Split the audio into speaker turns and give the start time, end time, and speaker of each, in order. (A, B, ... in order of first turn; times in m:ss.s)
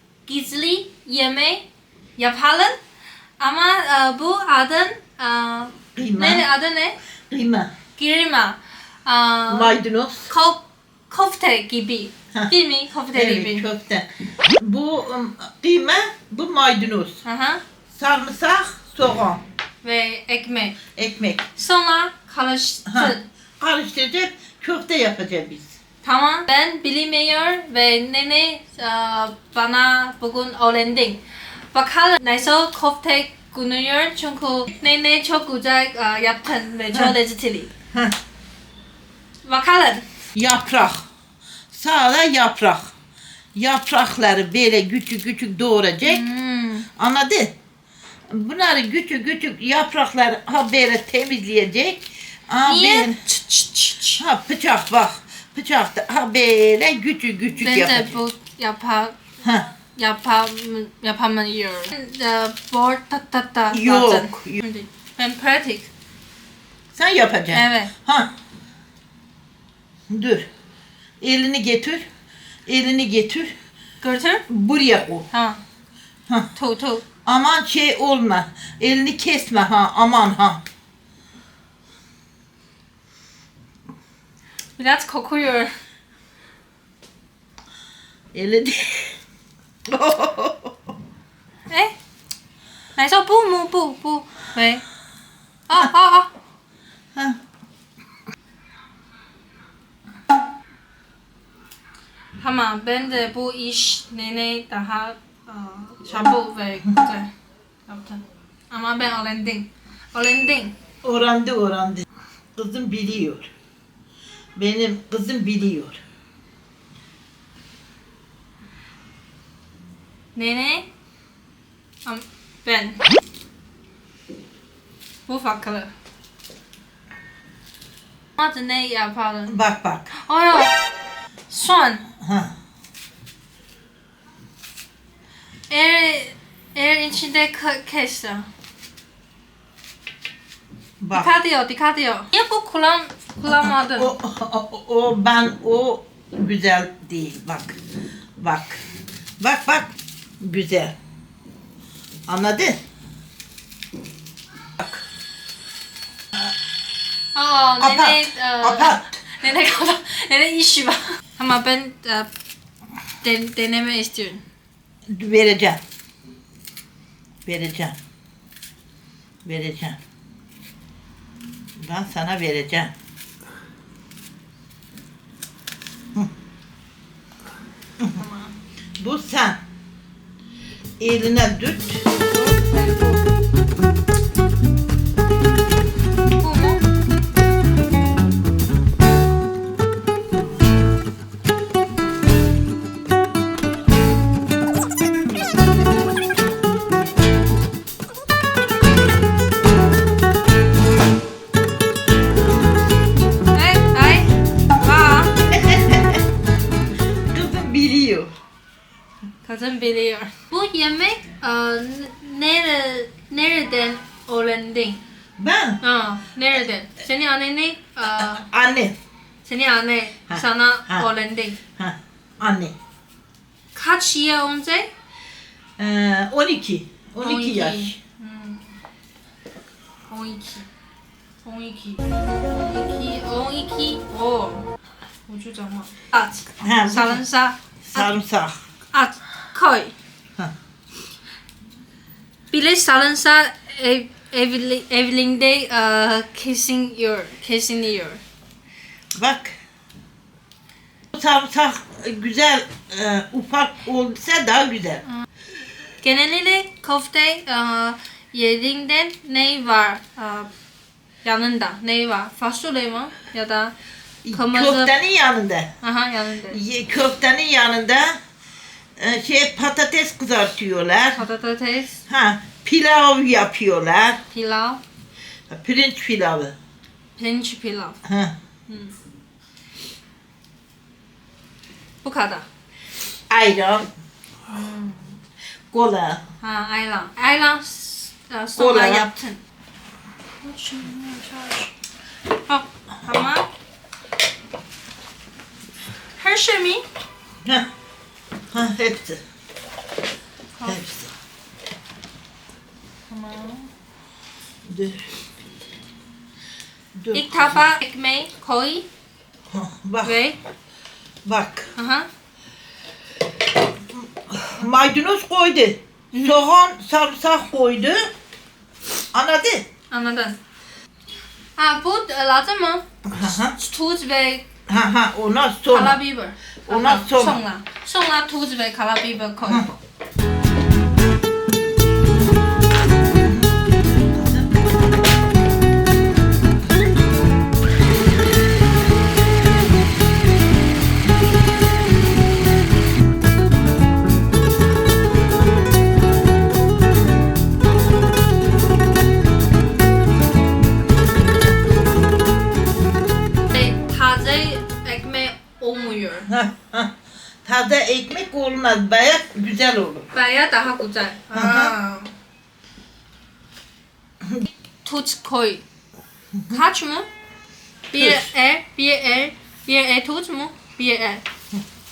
0:00.3-0:01.6 A
0:02.2-0:02.8 A
0:03.4-0:07.0 A
0:05.9-0:06.5 B
0:07.3-0:07.7 B
0:08.0-0:09.7 A
0:09.5-0:10.3 B
0:10.3-0:13.7 A
0:13.1-0:17.2 B
0:17.2-0:17.6 A
0:17.9-0:19.4 B
0:19.8-0:20.8 A
0:21.0-0:21.5 B
0:21.5-0:23.2 A
0:22.9-0:25.8 B
0:26.0-0:31.2 A
0:31.7-0:37.7 A
0:39.4-0:40.0 A
0:40.3-0:41.1 B
0:41.7-0:42.9 B
0:43.5-0:46.2 B
0:46.0-0:46.9 A
0:47.0-0:47.5 B
0:48.3-0:53.2 B
0:52.6-0:54.2 A
0:54.2-0:58.2 B
0:57.6-0:59.2 A
0:59.4-0:59.7 B
1:00.0-1:05.9 A
1:03.7-1:04.6 B
1:06.9-1:08.3 B
1:07.5-1:07.9 A
1:10.1-1:10.5 B
1:11.2-1:12.0 B
1:12.6-1:13.5 B
1:14.0-1:14.4 A
1:14.5-1:15.3 B
1:15.3-1:15.6 A
1:16.5-1:17.0 A
1:17.2-1:20.6 B
1:24.8-1:25.7 A
1:28.3-1:29.2 B
1:29.9-1:30.8 B
1:31.7-1:31.9 A
1:33.0-1:34.8 A
1:35.7-1:36.3 A
1:42.4-1:47.3 A
1:47.9-1:50.8 A
1:51.0-1:52.0 B
1:52.6-1:53.5 B
1:54.6-1:56.0 B
2:00.3-2:00.9 A
2:02.0-2:03.0 A
2:05.3-2:05.9 A
2:08.4-2:09.6 A
2:09.5-2:10.1 B
2:10.1-2:10.7 A
2:11.5-2:12.1 A
2:12.2-2:12.5 B
2:15.7-2:18.5 A
2:21.0-2:21.3 B
2:21.1-2:24.1 A
2:23.4-2:27.8 B
2:28.4-2:28.8 B
2:29.4-2:30.9 B
2:32.3-2:32.8 B
2:34.8-2:35.0 B
2:37.3-2:42.3 A
2:37.8-2:39.2 B
2:43.2-2:44.4 A
2:45.1-2:45.8 B
2:47.4-2:48.0 B
2:49.4-2:50.0 B
2:51.8-2:52.9 B
2:58.2-2:58.5 A
2:59.0-2:59.6 B
3:01.0-3:02.2 B
3:02.3-3:03.1 A
3:06.4-3:06.8 A
3:23.5-3:25.4 A
3:25.4-3:26.2 B
3:27.3-3:28.3 B
3:29.4-3:35.0 A
3:35.4-3:35.8 B
3:35.8-3:38.5 A
3:38.2-3:39.0 B
3:39.4-3:41.6 A
3:40.3-3:41.1 B
3:41.8-3:42.8 B
3:43.7-3:44.9 A
3:45.8-3:48.0 B
3:47.2-3:48.7 A
3:50.1-3:50.7 A
3:51.4-3:54.7 A
3:55.3-3:58.1 A
3:56.6-3:57.2 B
3:57.9-3:58.6 B
3:58.9-3:59.9 A
4:02.5-4:08.2 A
4:09.1-4:09.6 B
4:11.1-4:15.0 B
4:16.0-4:20.5 A
4:21.2-4:23.7 A
4:24.2-4:25.7 B
4:24.3-4:24.9 A
4:25.8-4:26.6 A
4:26.5-4:28.2 B
4:29.0-4:31.2 B
4:31.2-4:32.0 A
4:32.1-4:34.2 B
4:34.3-4:34.8 A
4:35.5-4:36.5 B
4:37.2-4:38.0 A
4:38.0-4:38.3 B
4:38.7-4:38.9 A
4:42.0-4:42.4 A
4:43.3-4:43.9 B
4:44.5-4:45.2 A
4:45.7-4:46.2 B
4:46.4-4:49.4 A
4:48.6-4:49.1 B
4:50.4-4:51.7 A
4:52.4-4:53.5 A
4:56.2-4:56.8 A
4:58.5-4:59.2 B
5:00.6-5:01.1 B
5:03.1-5:03.7 A
5:04.7-5:05.1 B
5:07.0-5:07.7 B
5:07.1-5:08.9 A
5:09.5-5:10.2 B
5:10.0-5:10.4 A
5:11.2-5:11.7 B
5:11.8-5:12.1 A
5:13.9-5:18.1 B
5:16.1-5:16.4 A
5:19.1-5:19.7 B
5:19.9-5:20.4 A
5:21.6-5:22.8 A
5:23.0-5:23.6 B
5:23.4-5:24.4 A
5:24.7-5:26.0 B
5:25.7-5:29.7 A
5:26.7-5:27.4 B
5:29.4-5:29.7 B
5:33.1-5:34.6 B
5:53.5-5:56.3 A
5:56.3-5:56.9 B
5:57.4-6:00.1 B
6:00.1-6:02.1 A
6:01.3-6:01.7 B
6:04.8-6:05.6 A
6:06.5-6:07.1 A
6:07.9-6:11.2 A
6:08.0-6:08.2 B